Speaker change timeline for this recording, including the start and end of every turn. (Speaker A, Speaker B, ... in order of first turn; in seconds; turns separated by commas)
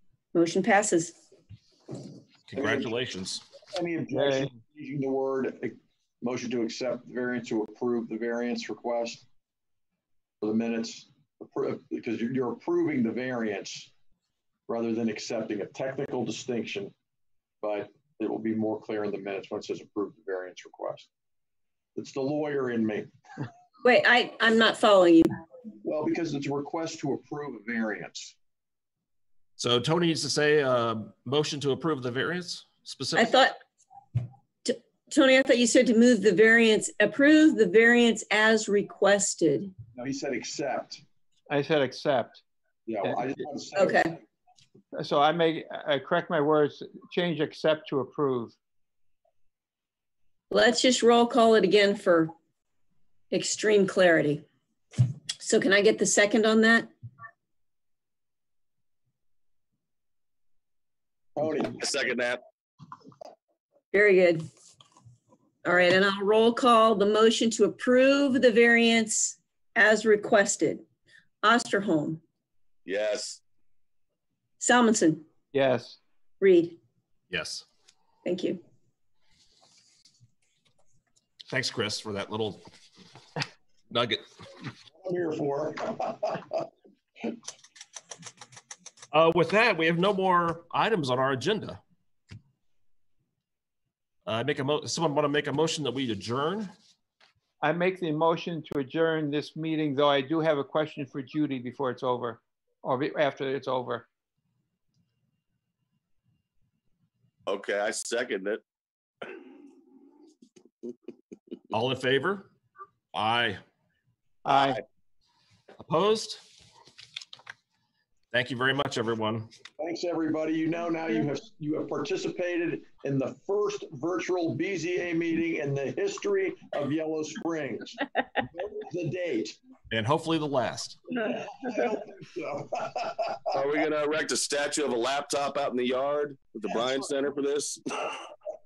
Speaker A: 0.3-1.2, Speaker B: 2.5-3.4, Speaker C: 2.5-2.9, Speaker C: 3.7-9.2, Speaker D: 4.1-4.5, Speaker C: 10.4-13.9, Speaker C: 14.7-16.9, Speaker C: 17.6-21.1, Speaker C: 21.9-23.1, Speaker A: 23.8-25.3, Speaker C: 25.8-28.3, Speaker B: 29.6-33.4, Speaker A: 33.1-33.6, Speaker A: 34.6-39.7, Speaker C: 39.9-41.0, Speaker D: 41.5-42.4, Speaker C: 42.9-44.2, Speaker D: 43.0-43.3, Speaker A: 43.7-44.1, Speaker D: 44.9-48.5, Speaker A: 50.5-52.3, Speaker A: 53.3-54.5, Speaker A: 55.4-56.9, Speaker C: 61.4-61.8, Speaker E: 61.8-62.4, Speaker A: 63.9-64.5, Speaker A: 65.6-70.8, Speaker A: 71.4-72.2, Speaker E: 72.8-73.4, Speaker A: 74.6-75.2, Speaker D: 75.5-76.0, Speaker A: 76.4-76.8, Speaker B: 77.3-77.6, Speaker A: 78.2-78.6, Speaker B: 81.5-82.6, Speaker B: 83.9-84.2, Speaker C: 84.9-86.7, Speaker B: 89.1-91.8, Speaker B: 94.2-96.7, Speaker D: 97.6-104.0, Speaker E: 107.5-108.6, Speaker B: 111.7-112.5, Speaker B: 113.1-113.6, Speaker D: 114.4-114.8, Speaker E: 114.5-114.8, Speaker B: 115.8-116.4, Speaker B: 118.3-119.5, Speaker C: 119.8-129.6, Speaker B: 129.9-131.0, Speaker C: 131.2-133.7, Speaker E: 133.5-138.2